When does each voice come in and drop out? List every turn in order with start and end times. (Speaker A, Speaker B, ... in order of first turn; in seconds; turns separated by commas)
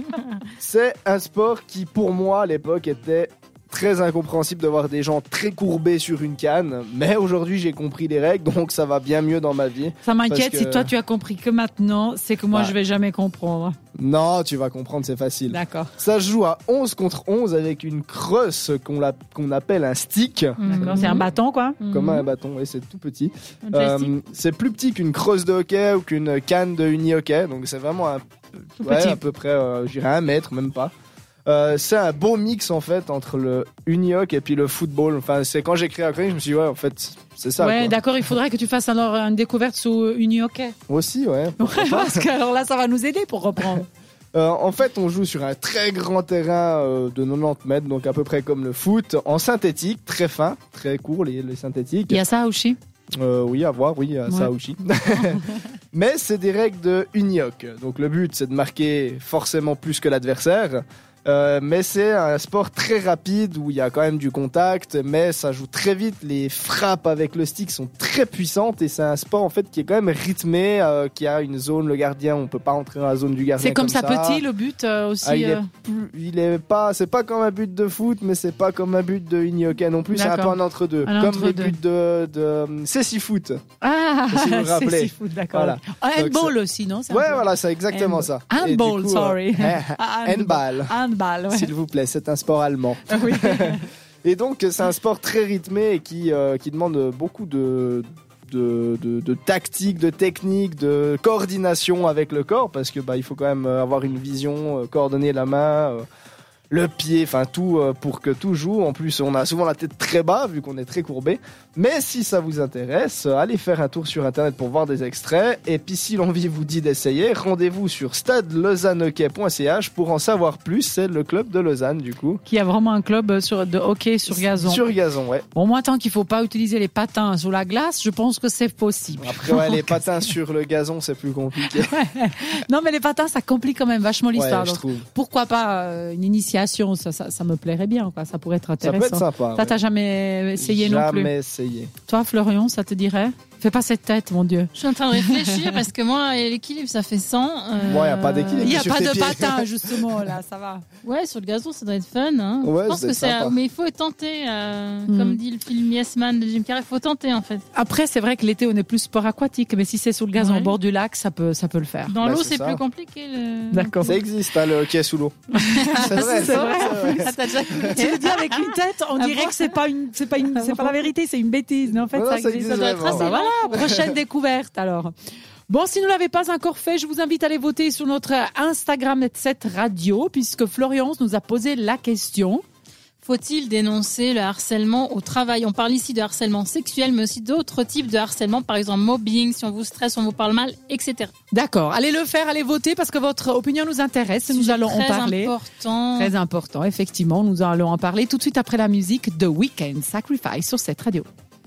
Speaker A: 0.6-10.9, Speaker B: 10.0-13.8, Speaker A: 13.9-21.2, Speaker B: 15.5-15.9, Speaker C: 20.6-21.3, Speaker B: 20.7-21.8, Speaker C: 21.8-22.2, Speaker A: 21.9-28.2, Speaker C: 23.7-24.0, Speaker A: 28.8-30.9, Speaker B: 28.8-29.2, Speaker A: 31.4-38.0, Speaker B: 37.6-40.7, Speaker A: 40.9-42.3, Speaker B: 41.6-43.9, Speaker A: 44.3-52.2, Speaker B: 52.1-52.8, Speaker A: 53.2-74.4, Speaker B: 55.1-55.5, Speaker B: 73.6-75.7, Speaker A: 75.2-83.6, Speaker B: 80.1-81.8, Speaker B: 83.8-91.7, Speaker A: 84.3-86.5, Speaker A: 87.1-90.9, Speaker A: 91.5-106.0, Speaker B: 93.1-93.8, Speaker A: 106.7-122.4, Speaker B: 122.5-124.8, Speaker A: 124.3-125.5, Speaker B: 125.5-130.1, Speaker A: 129.2-131.9, Speaker B: 131.7-141.3, Speaker A: 134.3-135.1, Speaker A: 138.8-139.8, Speaker A: 140.6-141.9, Speaker B: 142.1-145.6, Speaker C: 144.7-148.8, Speaker A: 147.8-150.2, Speaker B: 148.6-150.8, Speaker C: 151.0-157.6, Speaker A: 152.6-153.6, Speaker B: 155.1-155.4, Speaker B: 157.7-162.1, Speaker C: 160.3-160.8, Speaker C: 162.1-164.2, Speaker A: 162.2-162.8, Speaker B: 163.7-164.2, Speaker A: 164.0-168.0, Speaker B: 165.5-175.1, Speaker C: 165.6-169.8, Speaker C: 170.5-171.0, Speaker A: 172.0-174.2, Speaker C: 172.6-173.9, Speaker B: 175.7-182.6, Speaker C: 183.2-191.3, Speaker B: 191.5-195.5, Speaker C: 194.5-196.3, Speaker B: 196.2-201.3